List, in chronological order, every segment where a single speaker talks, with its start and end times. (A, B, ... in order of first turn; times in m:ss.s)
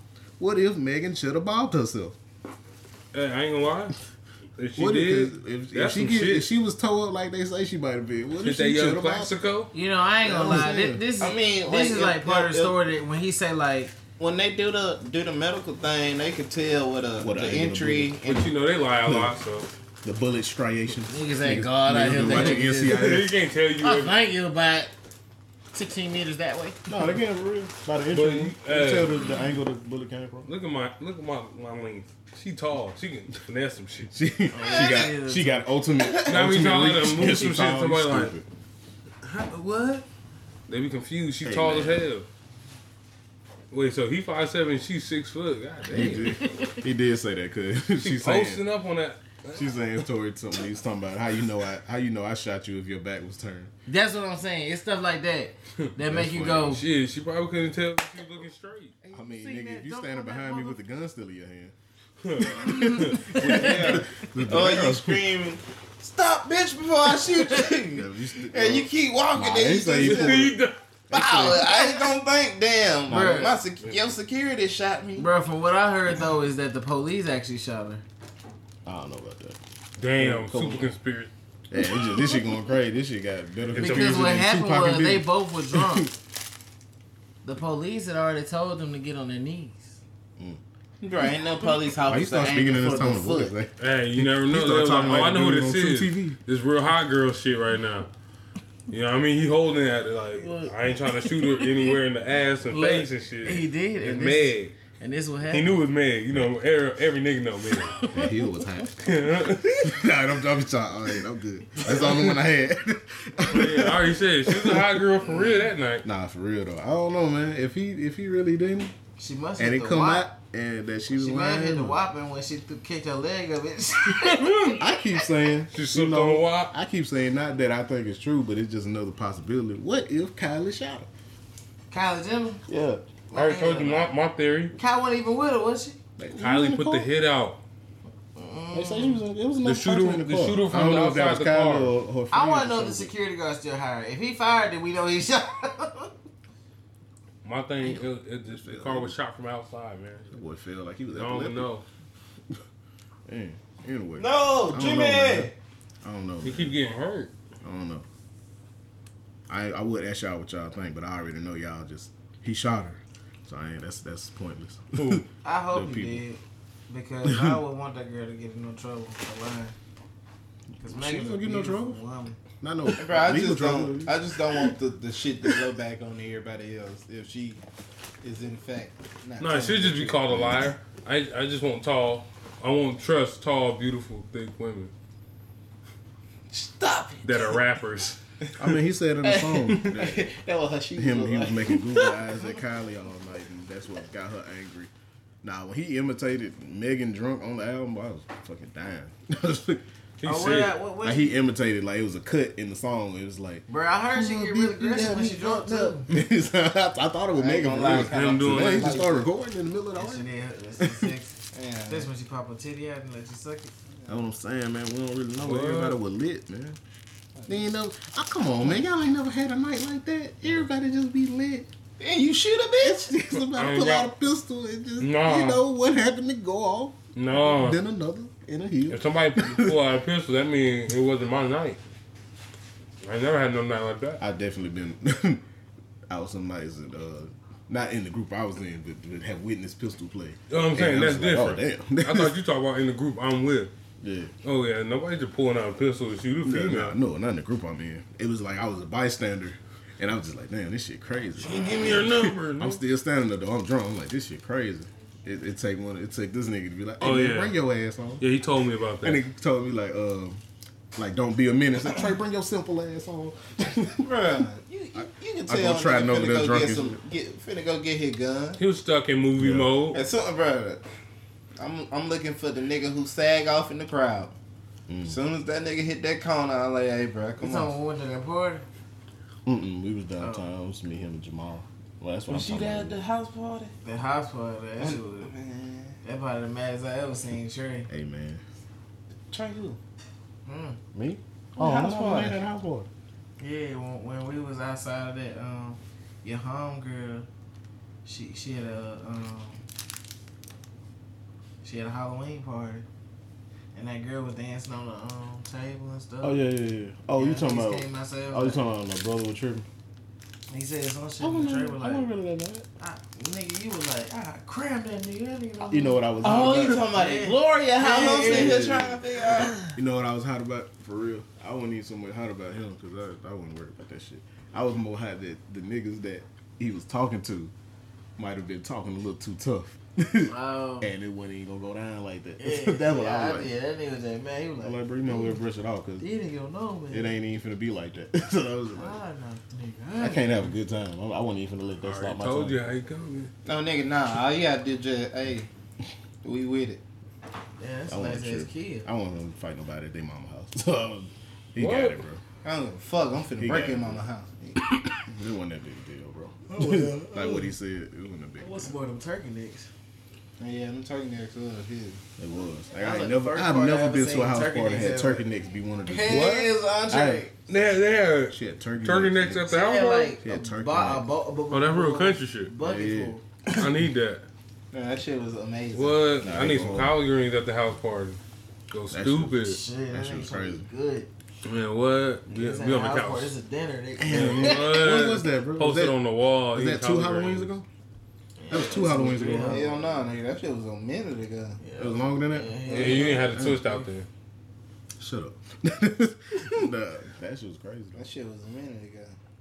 0:00.4-0:02.2 A
0:03.1-0:04.0 B
0:04.6-0:06.5 B
0:04.8-0:09.4 A
0:08.4-0:09.7 B
0:09.7-0:14.0 C
0:10.2-0:11.0 A
0:11.2-0:12.8 D
0:14.2-0:18.5 D
0:17.2-0:18.2 A
0:18.2-0:19.7 B
0:19.0-0:19.4 A
0:20.0-0:23.4 A
0:21.1-0:23.1 C
0:22.2-0:24.2 B
0:23.8-0:24.9 C
0:25.7-0:26.8 C
0:26.9-0:30.5 A
0:28.1-0:29.2 B
0:30.4-0:34.1 B
0:34.1-0:38.4 A
0:34.5-0:35.8 C
0:36.2-0:38.3 B
0:39.2-0:40.0 B
0:40.7-0:42.3 B
0:41.4-0:42.0 A
0:43.7-0:46.4 B
0:45.9-0:48.6 A
0:48.0-0:49.7 B
0:49.5-0:53.7 A
0:53.9-0:56.8 C
0:56.0-0:56.8 A
0:56.7-0:58.9 B
0:59.0-1:00.8 C
0:59.1-1:01.7 A
1:02.2-1:03.9 B
1:02.4-1:05.3 A
1:02.5-1:04.0 C
1:03.4-1:10.6 D
1:07.9-1:10.5 A
1:10.0-1:10.8 B
1:11.1-1:12.0 A
1:11.1-1:15.3 D
1:13.1-1:13.4 A
1:13.1-1:13.6 C
1:15.2-1:18.0 C
1:18.8-1:19.6 A
1:20.0-1:21.3 B
1:20.2-1:20.9 A
1:21.7-1:26.1 A
1:23.7-1:24.3 B
1:23.8-1:26.1 C
1:27.4-1:30.0 C
1:31.0-1:33.5 D
1:32.0-1:36.4 A
1:33.8-1:38.1 B
1:38.9-1:44.7 B
1:40.3-1:41.7 C
1:42.7-1:45.8 C
1:45.5-1:48.0 B
1:47.9-1:48.3 C
1:48.1-1:49.0 A
1:49.0-1:50.0 B
1:49.8-1:55.4 A
1:51.9-1:52.2 B
1:53.5-1:56.0 B
1:56.0-1:58.9 A
1:59.2-2:00.3 C
1:59.6-2:02.0 A
2:01.1-2:04.8 C
2:04.2-2:04.8 B
2:04.8-2:11.1 A
2:05.7-2:06.7 B
2:11.9-2:12.6 C
2:12.7-2:13.0 A
2:13.3-2:14.1 C
2:13.3-2:14.7 B
2:14.7-2:16.0 C
2:16.2-2:17.1 A
2:16.4-2:17.6 B
2:18.4-2:19.2 C
2:18.7-2:23.1 A
2:19.6-2:21.9 B
2:22.3-2:26.1 C
2:27.4-2:30.4 B
2:28.5-2:29.2 A
2:30.3-2:31.7 A
2:31.1-2:31.8 B
2:33.3-2:35.5 A
2:34.2-2:35.5 D
2:36.0-2:36.8 A
2:36.4-2:37.3 B
2:37.6-2:38.0 A
2:39.5-2:46.2 A
2:45.0-2:45.2 B
2:45.4-2:49.7 C
2:47.2-2:47.6 A
2:50.8-2:52.0 A
2:50.8-2:52.4 C
2:52.6-2:54.7 A
2:52.9-2:57.6 D
2:58.2-3:00.4 D
2:59.4-3:04.9 B
3:00.3-3:00.7 A
3:06.5-3:07.6 D
3:07.2-3:08.2 B
3:08.6-3:10.3 A
3:08.6-3:12.2 D
3:10.9-3:14.9 A
3:15.4-3:19.8 A
3:20.2-3:20.8 B
3:20.2-3:21.4 C
3:21.0-3:30.2 A
3:23.7-3:26.1 C
3:27.3-3:29.3 D
3:27.8-3:29.0 B
3:29.9-3:33.7 C
3:30.8-3:31.1 A
3:31.5-3:32.1 D
3:34.1-3:36.8 A
3:35.4-3:36.0 B
3:37.4-3:37.7 D
3:37.5-3:41.7 A
3:42.0-3:43.3 D
3:42.8-3:49.8 A
3:43.5-3:44.1 B
3:45.0-3:45.6 B
3:47.2-3:47.8 B
3:48.9-3:51.8 B
3:53.0-3:54.2 B
3:54.2-3:55.4 A
3:56.1-4:02.4 A
4:00.5-4:03.7 B
4:04.0-4:04.3 A
4:04.4-4:07.0 B
4:06.4-4:18.3 A
4:11.4-4:12.8 B
4:17.0-4:17.6 B
4:18.2-4:19.2 B
4:19.0-4:20.4 A
4:21.0-4:24.1 A
4:24.0-4:28.6 D
4:25.0-4:27.0 A
4:28.6-4:30.0 B
4:29.4-4:29.8 A
4:29.9-4:30.8 D
4:31.6-4:34.3 D
4:34.9-4:35.2 A
4:35.0-4:37.7 D
4:37.4-4:38.6 C
4:39.4-4:43.0 A
4:40.2-4:40.5 C
4:42.3-4:43.7 D
4:43.8-4:45.3 C
4:44.8-4:46.0 D
4:46.0-4:47.9 C
4:47.9-4:48.4 A
4:49.3-4:49.8 D
4:50.4-4:50.8 C
4:50.9-4:52.9 A
4:51.6-4:52.4 D
4:53.4-4:57.3 C
4:58.0-4:59.6 C
5:01.6-5:02.8 C
5:03.7-5:06.4 C
5:06.2-5:09.7 A
5:07.1-5:08.6 C
5:10.5-5:12.1 C
5:11.2-5:12.6 A
5:12.8-5:18.7 C
5:15.7-5:16.8 A
5:16.2-5:19.6 D
5:18.2-5:19.0 A
5:19.4-5:19.7 C
5:19.6-5:27.5 A
5:28.2-5:33.5 A
5:30.2-5:30.9 C
5:32.4-5:35.3 C
5:34.6-5:36.0 A
5:36.0-5:37.1 C
5:36.9-5:39.0 A
5:38.7-5:40.5 C
5:40.0-5:42.6 A
5:41.8-5:43.3 B
5:43.4-5:45.5 D
5:46.2-5:46.8 D
5:47.6-5:48.9 C
5:47.9-5:52.2 A
5:51.6-5:52.0 B
5:52.4-5:54.6 D
5:53.4-5:54.0 A
5:54.9-5:58.7 A
5:56.5-5:57.5 C
5:58.4-5:59.7 C
6:00.4-6:02.0 D
6:02.2-6:07.3 A
6:02.8-6:05.2 C
6:05.8-6:07.3 C
6:06.1-6:06.5 D
6:07.5-6:10.2 B
6:08.3-6:09.5 A
6:09.5-6:13.2 C
6:10.2-6:11.1 A
6:11.5-6:12.5 B
6:12.6-6:13.2 A
6:13.5-6:14.2 B
6:14.7-6:16.1 D
6:15.7-6:18.2 B
6:16.2-6:17.0 A
6:18.7-6:19.6 B
6:18.9-6:20.7 A
6:19.5-6:21.1 C
6:21.4-6:23.3 B
6:22.3-6:24.9 C
6:24.0-6:26.0 A
6:24.1-6:27.5 B
6:26.5-6:27.7 A
6:28.4-6:30.0 C
6:28.5-6:29.7 A
6:29.3-6:31.6 D
6:31.6-6:33.4 C
6:31.8-6:33.8 A
6:32.6-6:34.1 B
6:32.7-6:33.1 D
6:35.0-6:38.0 A
6:38.0-6:39.2 D